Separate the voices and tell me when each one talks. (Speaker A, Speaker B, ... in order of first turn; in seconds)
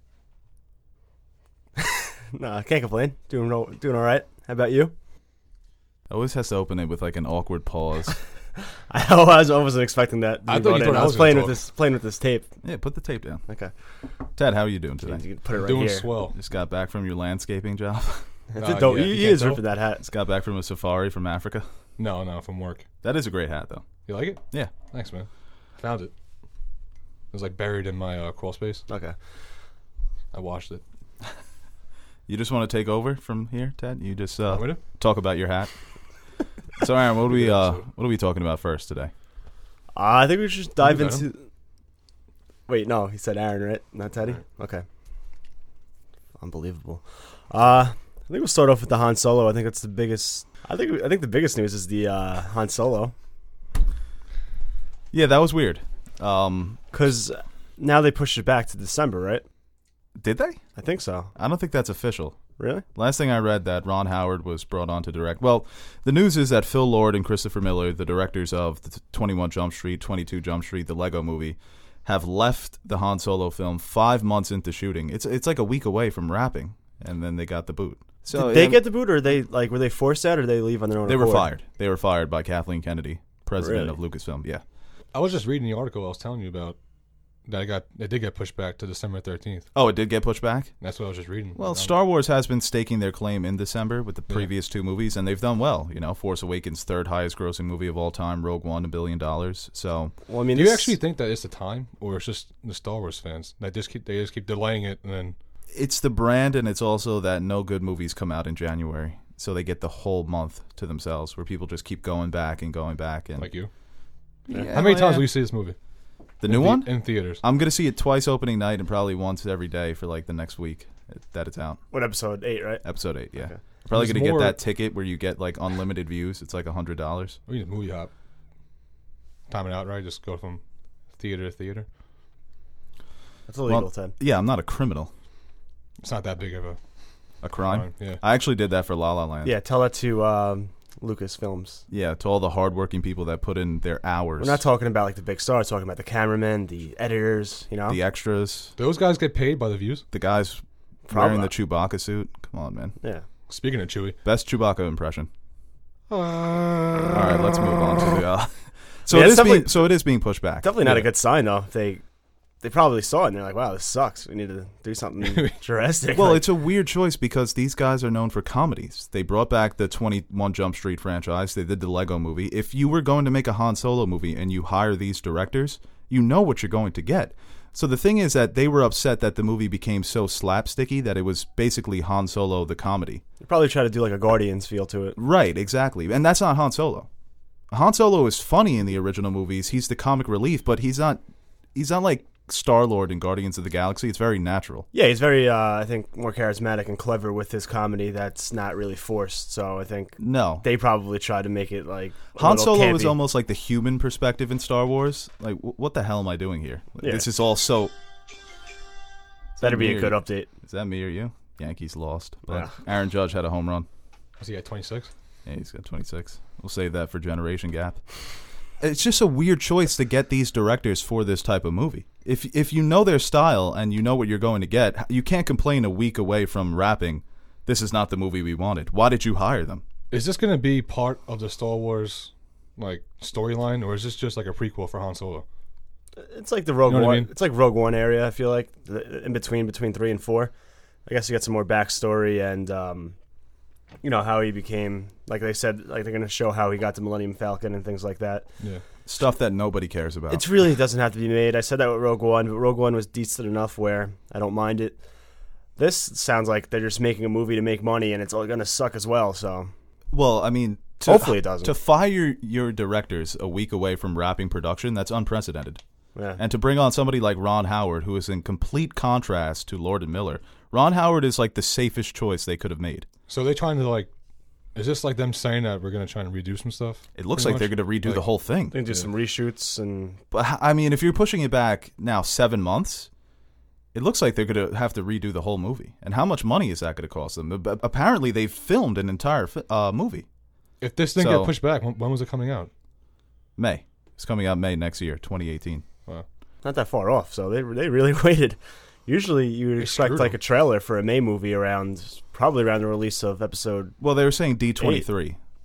Speaker A: 1.8-4.9, 8.9-12.5, 15.1-16.1, 18.5-20.1, 28.9-29.2, 40.0-41.4, 42.7-44.9, 46.4-53.1, 56.9-59.4, 60.8-61.3, 62.6-62.9, 78.3-81.5, 83.6-84.0, 100.3-101.0, 121.9-122.8, 133.5-134.1, 139.4-141.8, 144.4-148.0, 151.1-151.5, 159.1-159.9, 160.6-162.0, 162.6-166.4, 183.4-185.2, 194.9-203.2, 207.0-207.3, 209.6-210.5, 236.2-240.5, 241.1-243.2, 244.0-248.5, 250.3-255.0, 255.8-259.7, 261.0-261.7, 266.1-266.4, 278.7-280.2, 296.6-304.0, 304.8-305.1
Speaker B: 6.1-8.2, 12.6-13.4, 14.4-15.2, 16.3-18.3, 20.1-21.7, 23.0-23.9, 32.3-35.7, 36.8-39.1, 55.1-56.9, 60.2-60.6, 61.4-62.4, 63.0-78.8, 81.1-84.6, 89.8-90.7, 91.6-100.1, 105.7-113.5, 114.5-115.3, 116.4-121.8, 122.8-127.4, 133.7-135.1, 137.4-139.5, 141.9-144.6, 147.9-148.7, 150.1-152.9, 154.2-155.3, 157.1-161.0, 166.1-183.2, 185.2-187.1, 187.7-191.2, 191.8-194.9, 200.2-200.7, 202.3-207.9, 209.6-213.9, 215.5-218.0, 218.8-229.8, 249.1-250.4, 260.1-265.8, 266.4-273.1, 277.1-278.8, 280.3-283.1, 283.9-290.3, 291.2-291.5, 293.6-295.9, 304.0-305.4
Speaker C: 10.5-11.6, 15.6-16.4, 18.6-19.6, 22.0-22.9, 24.1-26.1, 27.3-28.9, 30.3-30.8, 34.5-34.8, 37.3-37.8, 40.8-41.3, 85.1-86.8, 87.5-89.7, 90.8-91.9, 100.5-105.4, 113.4-113.7, 114.7-115.8, 116.4-117.4, 123.9-124.6, 127.5-128.1, 129.5-130.6, 131.2-131.9, 136.0-136.8, 137.6-138.2, 148.8-150.1, 153.5-154.2, 156.1-157.4, 165.2-165.6, 214.4-215.1, 230.1-235.4, 236.9-237.3, 273.3-274.1, 274.8-278.3, 290.8-292.7, 299.8-300.3